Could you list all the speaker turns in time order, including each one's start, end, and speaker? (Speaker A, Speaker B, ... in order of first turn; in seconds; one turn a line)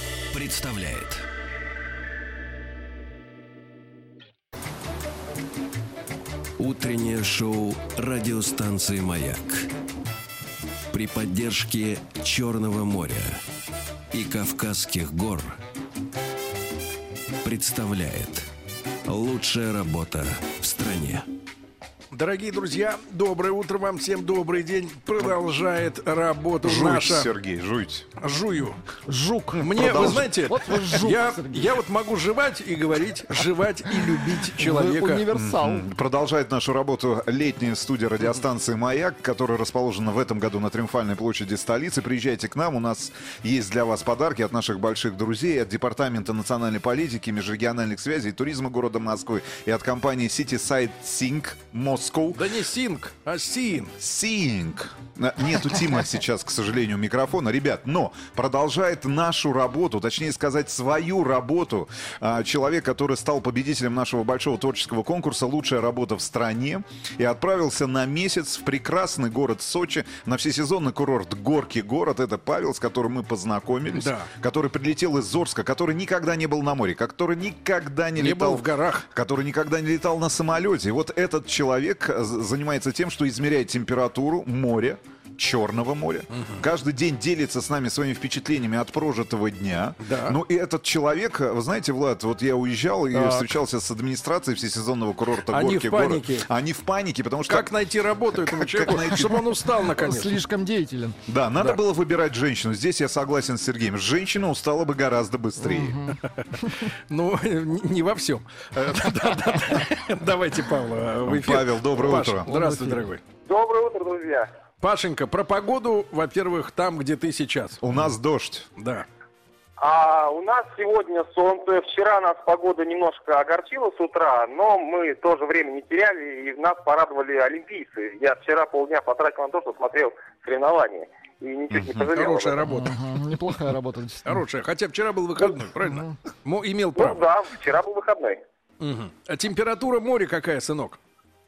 Speaker A: 0.3-1.2
Speaker A: 6.6-9.7
Speaker A: 10.9-13.4
Speaker A: 14.1-15.6
Speaker A: 17.4-18.5
Speaker A: 19.0-21.3
Speaker B: 22.1-27.3
Speaker C: 26.6-28.1
Speaker B: 28.2-28.8
Speaker D: 29.1-31.7
Speaker B: 29.6-35.3
Speaker C: 29.7-30.3
Speaker D: 34.2-35.8
Speaker C: 35.3-52.4
Speaker B: 52.3-53.9
Speaker C: 54.0-97.7
Speaker B: 73.9-74.3
Speaker B: 78.2-79.0
Speaker B: 86.3-86.6
Speaker B: 90.0-90.4
Speaker D: 93.1-93.5
Speaker B: 95.5-96.5
Speaker B: 97.5-100.5
Speaker C: 98.3-99.6
Speaker D: 99.9-101.2
Speaker C: 101.3-106.1
Speaker D: 105.6-106.1
Speaker B: 106.3-113.2
Speaker C: 111.2-112.5
Speaker D: 112.5-113.0
Speaker E: 113.5-114.5
Speaker B: 114.8-117.8
Speaker C: 117.8-118.7
Speaker B: 118.8-119.0
Speaker E: 119.8-132.7
Speaker B: 132.1-133.1
Speaker D: 132.6-134.3
Speaker B: 134.2-137.2
Speaker E: 136.9-138.4
Speaker B: 138.8-141.0